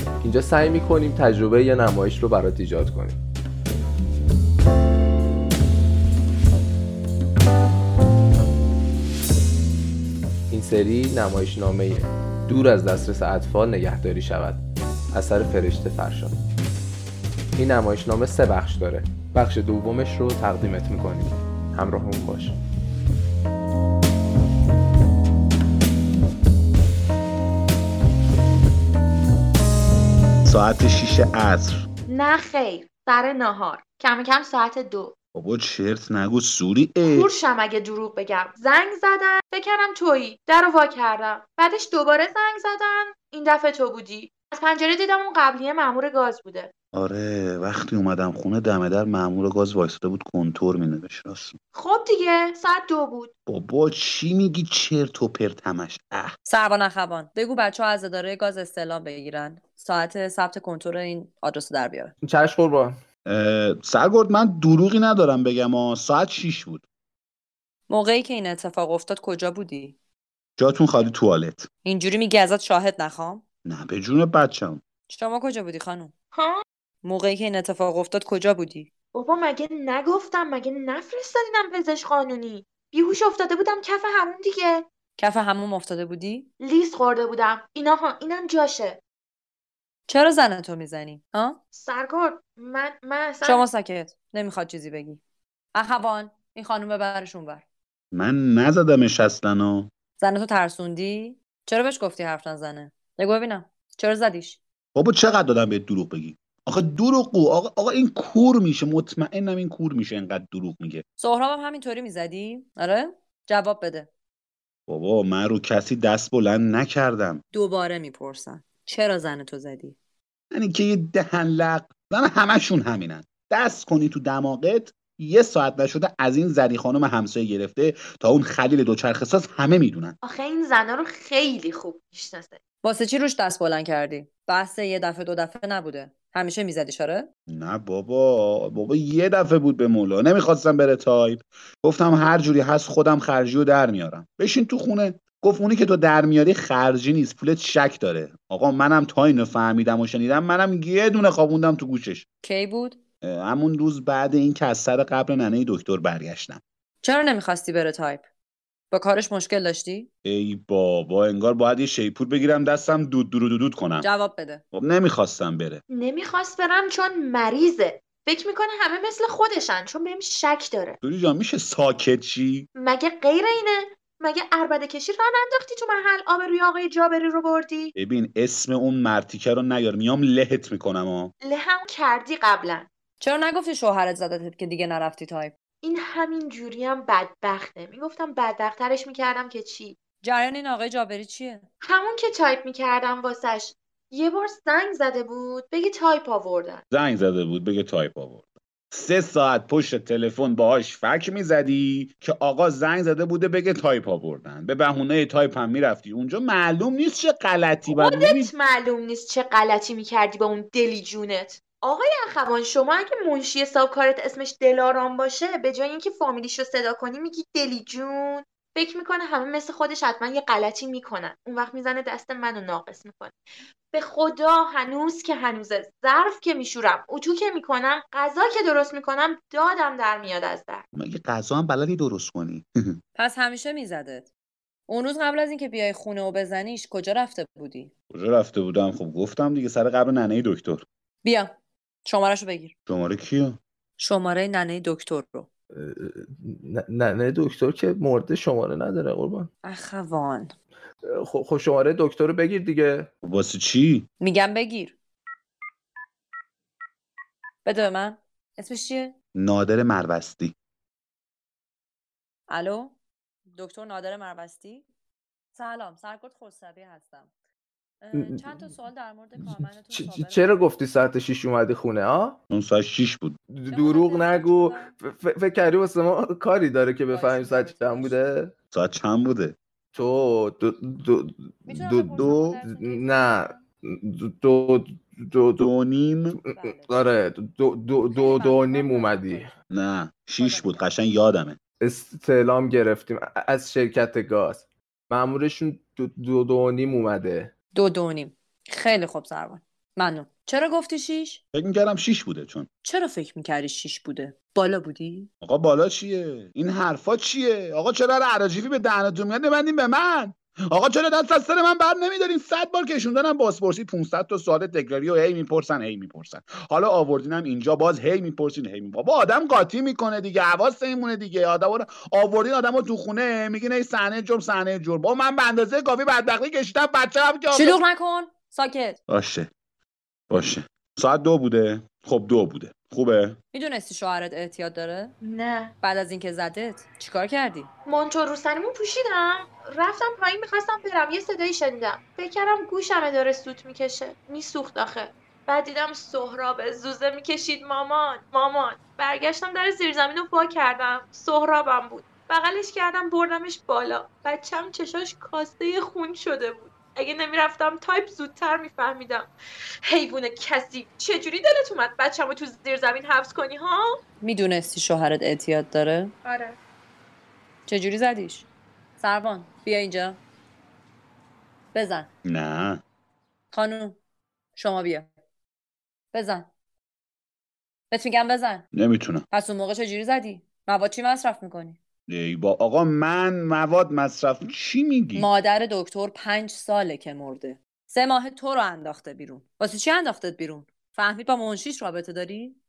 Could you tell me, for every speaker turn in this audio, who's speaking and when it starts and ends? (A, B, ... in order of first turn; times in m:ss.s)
0:00.2-0:03.2 A
0:10.5-0:16.4 A
0:17.6-0:22.6 A
0:30.4-0:31.8 B
0:32.1-0:35.1 C
0:35.3-0:37.3 B
0:37.0-0:46.7 C
0:46.9-0:51.6 B
0:51.7-0:53.3 C
0:53.5-0:56.3 B
0:56.4-1:02.1 D
1:02.2-1:03.0 A
1:03.2-1:06.8 B
1:07.9-1:10.0 D
1:10.6-1:11.7 B
1:11.8-1:13.4 D
1:13.6-1:14.8 B
1:15.1-1:16.1 D
1:16.3-1:16.6 C
1:17.0-1:18.9 D
1:19.1-1:24.9 C
1:25.2-1:26.5 D
1:26.6-1:29.0 C
1:30.1-1:31.6 D
1:31.7-1:33.7 C
1:33.4-1:35.2 D
1:35.7-1:37.6 D
1:38.1-1:39.9 B
1:40.2-1:44.6 D
1:44.9-1:51.0 B
1:51.2-1:54.1 D
1:54.9-1:57.4 B
1:57.5-2:00.0 D
2:00.5-2:10.2 B
2:10.2-2:12.6 C
2:12.8-2:17.3 D
2:17.5-2:32.2 B
2:32.4-2:33.0 D
2:33.2-2:36.6 B
2:37.0-2:38.2 D
2:38.9-2:40.1 D
2:40.2-2:44.1 B
2:44.0-2:44.6 D
2:44.7-2:45.8 B
2:45.9-2:51.0 C
2:51.0-2:52.7 B
2:52.8-2:57.9 C
2:58.0-3:01.3 B
3:01.4-3:02.9 C
3:03.2-3:05.5 D
3:05.8-3:10.0 C
3:10.2-3:11.6 D
3:11.8-3:16.8 C
3:16.9-3:28.5 B
3:27.9-3:43.4 C
3:43.9-3:50.8 C
3:50.9-3:53.0 B
3:53.1-3:54.3 D
3:54.9-3:57.9 D
3:58.1-4:00.8 B
4:01.2-4:01.5 D
4:02.0-4:02.7 D
4:02.9-4:03.6 B
4:04.0-4:05.5 D
4:05.7-4:09.5 A
4:09.6-4:10.5 D
4:11.1-4:13.1 A
4:13.2-4:14.1 B
4:14.2-4:14.9 D
4:17.6-4:19.1 D
4:19.4-4:20.5 B
4:22.5-4:22.9 D
4:23.5-4:24.9 D
4:25.5-4:27.3 D
4:28.0-4:30.7 D
4:28.1-4:28.5 A
4:29.4-4:32.4 A
4:32.5-4:33.4 B
4:33.5-4:38.5 A
4:33.7-4:34.9 D
4:37.1-4:38.3 D
4:38.7-4:39.6 B
4:39.9-4:43.5 A
4:41.7-4:43.6 D
4:42.2-4:42.6 B
4:44.0-4:45.7 A
4:45.6-4:46.4 B
4:46.4-4:49.5 A
4:46.5-4:47.0 D
4:48.1-4:49.5 D
4:49.7-4:51.6 B
4:50.4-4:50.8 D
4:51.8-4:57.5 A
4:57.7-5:01.4 D
5:01.5-5:02.7 B
5:02.8-5:05.3 D
5:05.4-5:27.8 B
5:27.5-5:29.0 D
5:29.1-5:29.5 B
5:30.3-5:33.4 B
5:33.5-5:35.1 D
5:35.2-5:35.7 C
5:35.8-5:37.7 D
5:37.8-5:59.3 C
5:59.8-6:04.0 C
6:04.2-6:06.1 D
6:06.2-6:06.6 C
6:07.7-6:08.4 D
6:09.0-6:10.2 D
6:11.7-6:12.1 D
6:12.2-6:12.8 B
6:13.5-6:14.0 D
6:14.6-6:15.1 D
6:16.1-6:16.5 D
6:17.9-6:18.6 D
6:18.7-6:19.2 B
6:19.3-6:21.8 D
6:22.1-6:25.3 B
6:25.1-6:32.6 D